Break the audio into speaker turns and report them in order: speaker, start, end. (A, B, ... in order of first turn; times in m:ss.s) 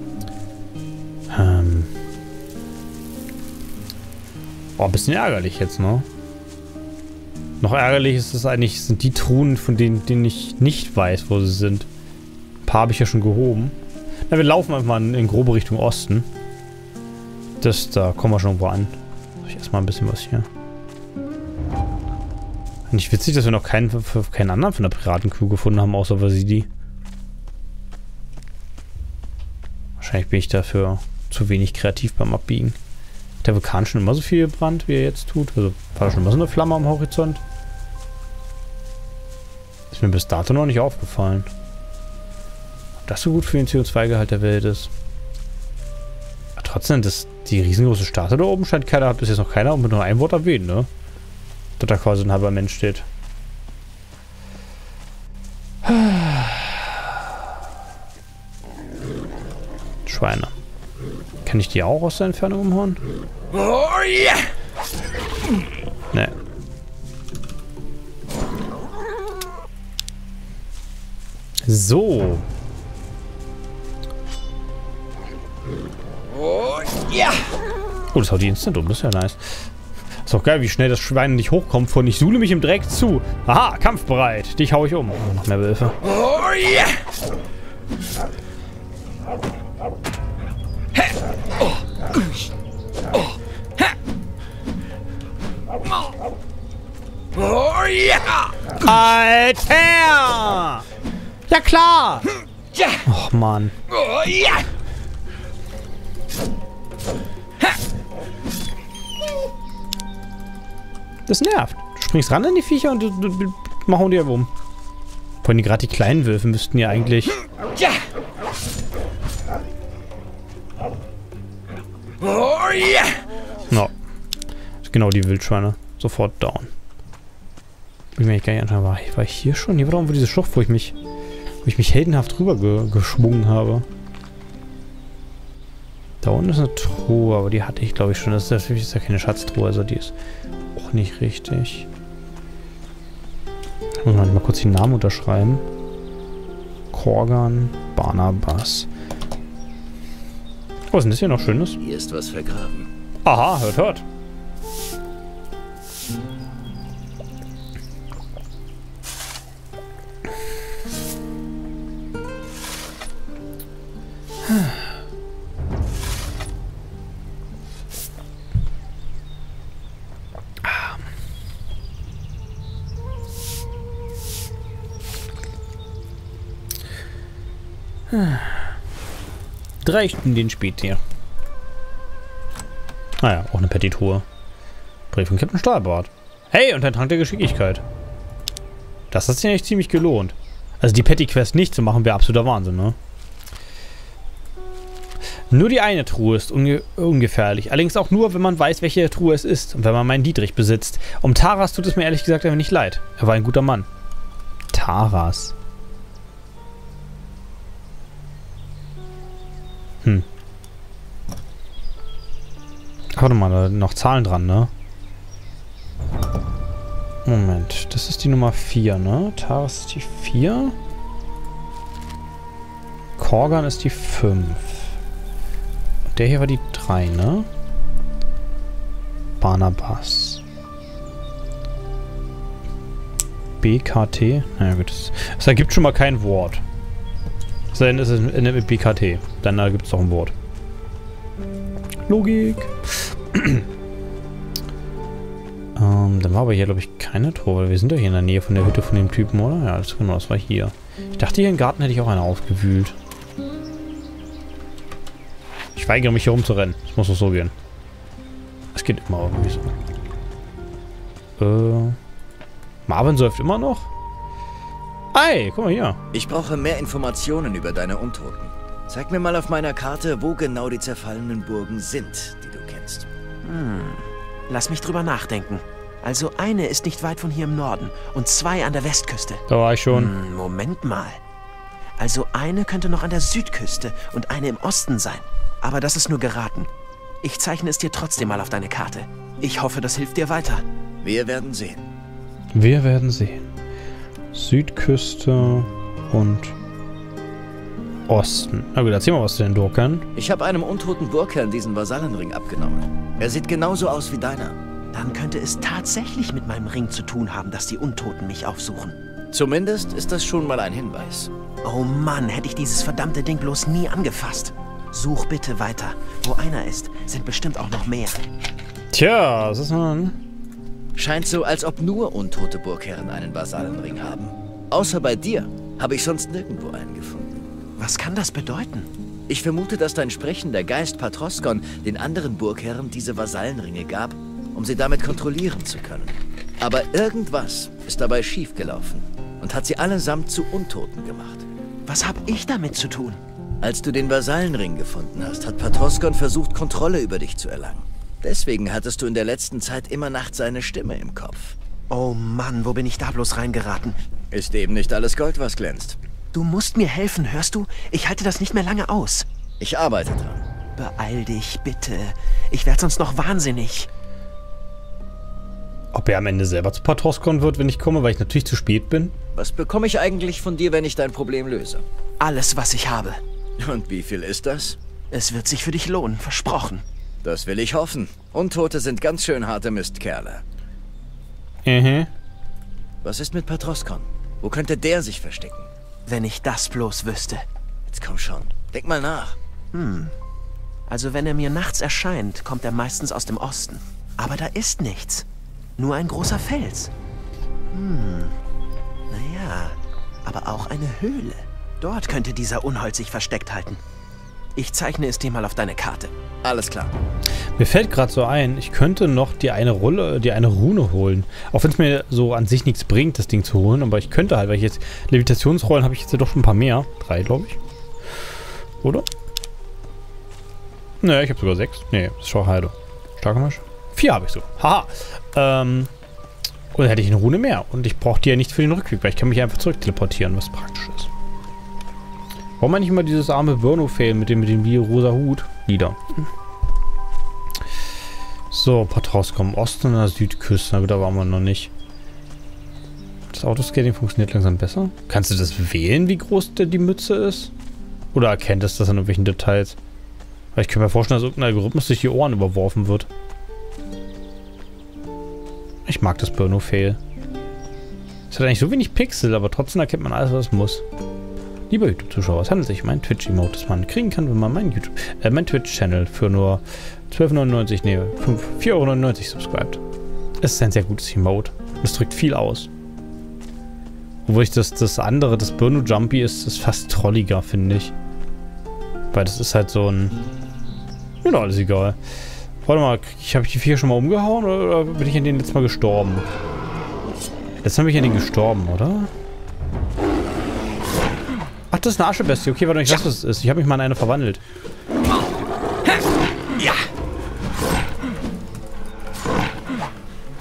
0:01.3-0:01.9 A
0:04.8-0:06.0 A
0:07.6-0:11.9 A
0:12.6-0:13.8 A
0:14.3-0:16.3 A
0:17.6-0:20.5 A
0:22.9-0:26.7 A
0:30.0-0:32.8 A
0:33.4-0:37.4 A
0:39.9-0:41.5 A
0:43.0-0:44.9 A
0:46.6-0:50.9 A
0:51.8-0:53.0 A
0:55.8-0:57.0 A
1:00.0-1:00.5 A
1:01.4-1:03.0 A
1:11.6-1:12.4 A
1:18.1-1:19.7 A
1:20.2-1:26.0 A
1:37.6-1:38.3 B
1:38.8-1:40.8 A
1:41.5-1:42.3 A
1:43.0-1:43.7 A
1:51.3-1:54.5 A
1:55.4-1:57.4 A
2:04.8-2:06.7 A
2:08.1-2:10.9 A
2:11.6-2:13.8 A
2:16.2-2:20.1 A
2:20.7-2:21.9 A
2:24.0-2:25.6 A
2:26.9-2:28.9 A
2:30.9-2:31.8 A
2:31.8-2:32.9 B
2:33.2-2:34.0 A
2:50.6-2:51.0 A
2:58.1-2:58.7 A
2:59.8-3:01.0 A
3:03.2-3:04.2 A
3:05.1-3:07.8 A
3:09.1-3:13.0 A
3:15.5-3:23.9 A
3:24.7-3:25.5 A
3:33.1-3:34.7 A
3:37.2-3:40.7 A
3:43.2-3:44.9 A
3:46.1-3:47.5 A
3:49.4-3:50.4 A
3:53.6-3:56.6 A
3:57.7-4:00.3 A
4:02.1-4:02.7 A
4:03.3-4:03.6 A
4:05.8-4:12.9 A
4:15.7-4:17.5 A
4:18.7-4:19.7 A
4:21.4-4:22.0 A
4:22.9-4:23.9 A
4:25.1-4:26.0 A
4:26.1-4:33.1 B
4:33.4-4:41.2 C
4:39.5-4:40.1 A
4:42.0-4:46.7 C
4:47.2-4:50.6 C
4:51.0-4:51.8 B
4:52.5-4:53.5 A
4:54.3-4:56.5 A
4:58.1-5:00.0 A
5:00.2-5:04.6 B
5:04.9-5:08.9 C
5:09.3-5:11.3 B
5:11.6-5:18.2 C
5:18.9-5:20.2 A
5:21.0-5:27.4 B
5:27.8-5:28.9 C
5:29.3-5:41.4 B
5:41.9-5:43.2 C
5:43.6-5:51.5 B
5:51.9-5:54.0 C
5:54.3-5:56.0 B
5:56.3-5:59.2 C
5:59.6-6:00.4 B
6:00.8-6:03.9 C
6:05.9-6:09.1 A
6:09.3-6:11.8 B
6:12.2-6:13.2 C
6:13.6-6:14.8 B
6:15.1-6:16.8 C
6:17.2-6:20.4 B
6:21.6-6:22.1 A
6:23.0-6:25.7 B
6:26.1-6:27.4 C
6:27.9-6:29.4 B
6:29.7-6:30.1 C
6:30.9-6:35.2 C
6:35.8-6:36.9 C
6:37.7-6:38.4 C
6:39.1-6:43.8 C
6:44.6-6:46.1 C
6:46.4-6:46.9 B
6:47.6-6:57.6 A
7:01.0-7:05.9 A
7:06.7-7:11.1 A
7:12.6-7:16.3 A
7:18.5-7:21.7 A
7:23.3-7:27.5 A
7:28.1-7:29.8 A
7:30.5-7:33.1 A
7:35.8-7:37.0 A
7:38.3-7:40.8 A
7:41.7-7:49.8 A
7:50.4-7:52.7 A
7:54.2-7:57.9 A
7:59.1-8:00.2 A
8:01.2-8:02.0 A
8:02.6-8:06.3 A
8:07.6-8:09.1 A
8:11.7-8:14.4 A